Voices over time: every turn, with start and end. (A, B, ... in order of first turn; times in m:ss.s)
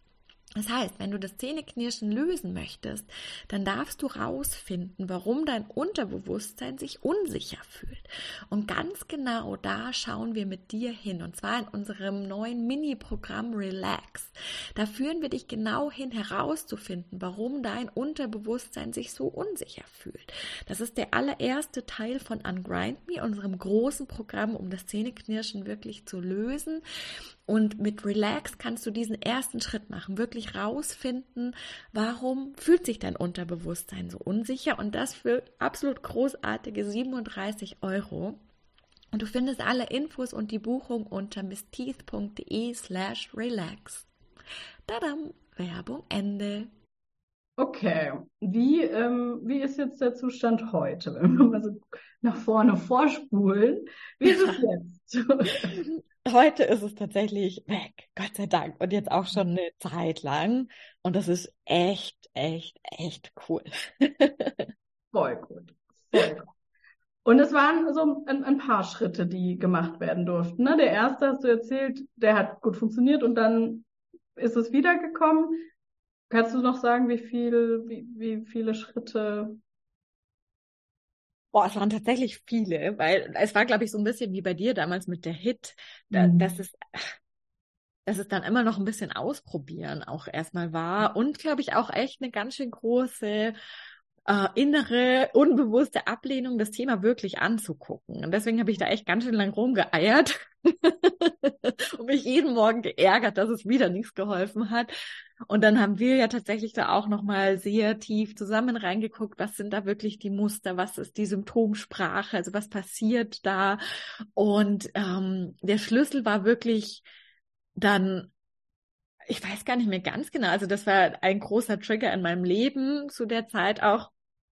0:00.6-0:26.8 A
0:27.5-0:38.4 A
0:39.1-0:44.1 A
0:44.9-0:46.7 A
0:47.6-0:55.8 B
0:54.3-0:54.6 A
0:55.6-1:04.7 A
1:05.1-1:06.5 B
1:07.2-1:15.6 B
1:16.3-1:19.6 B
1:21.5-1:27.1 A
1:26.1-1:26.5 B
1:28.1-1:33.5 A
1:34.3-1:44.9 A
1:45.5-1:53.8 A
1:54.4-1:57.0 A
1:57.8-1:58.3 A
1:59.3-2:04.1 A